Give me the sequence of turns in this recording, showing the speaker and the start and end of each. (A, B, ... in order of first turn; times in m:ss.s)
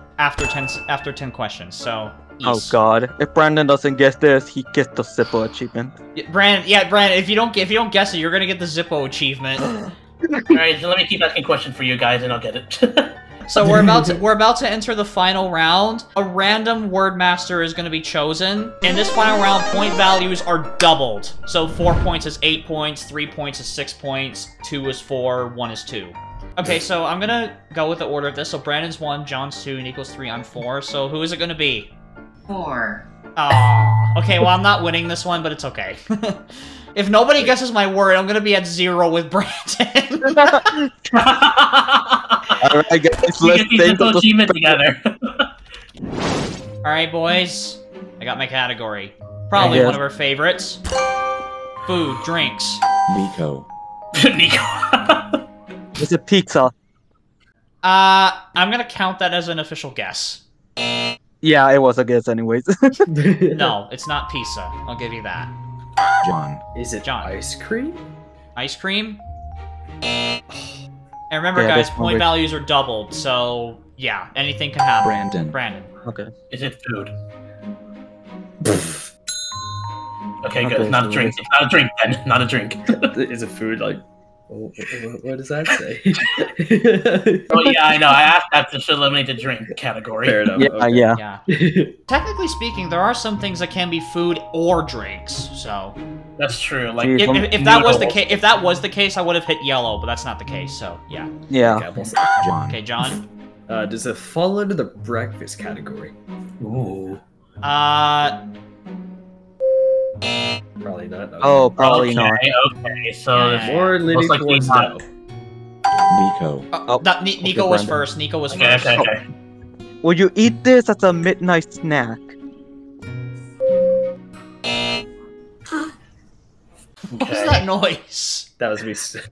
0:00.2-0:02.8 A
0:02.4-0:05.9 B
0:06.1-0:09.7 A
0:10.3-0:10.6 B
0:10.5-0:13.1 C
0:13.5-0:31.9 A
0:13.6-0:14.2 D
0:32.5-0:40.8 A
0:40.2-0:40.9 B
0:41.1-0:42.6 C
0:42.6-0:44.8 B
0:43.4-0:45.5 C
0:46.8-0:50.8 A
0:49.5-0:50.0 B
0:51.8-0:52.8 A
0:53.1-0:53.6 E
0:54.1-0:55.4 C
0:56.0-0:56.7 B
0:57.8-1:00.4 A
1:01.4-1:03.0 B
1:03.1-1:03.8 D
1:03.5-1:05.5 A
1:06.2-1:06.6 E
1:06.7-1:08.0 D
1:07.0-1:07.3 A
1:08.6-1:09.2 A
1:10.5-1:10.8 D
1:11.3-1:15.9 A
1:11.5-1:12.4 B
1:15.0-1:15.6 E
1:16.0-1:16.3 B
1:16.5-1:17.1 C
1:18.6-1:19.0 D
1:20.4-1:23.1 C
1:20.6-1:21.4 B
1:22.9-1:27.8 D
1:27.5-1:30.5 C
1:30.2-1:32.0 D
1:30.6-1:31.2 B
1:31.1-1:31.4 A
1:32.1-1:36.0 A
1:36.4-1:38.3 C
1:37.0-1:37.5 B
1:37.2-1:41.3 A
1:41.5-1:41.8 B
1:41.6-1:42.4 D
1:42.4-1:42.8 E
1:42.7-1:43.2 A
1:43.7-1:46.1 D
1:46.6-1:47.2 C
1:47.6-1:48.4 A
1:50.8-1:51.8 D
1:51.4-1:52.4 B
1:51.8-1:54.9 C
1:53.3-1:54.0 A
1:53.6-1:55.0 D
1:56.1-1:56.7 E
1:56.7-1:59.1 A
1:56.9-1:58.0 B
1:58.5-1:59.2 C
2:00.0-2:02.3 B
2:07.1-2:08.5 A
2:07.1-2:07.6 C
2:08.6-2:09.2 D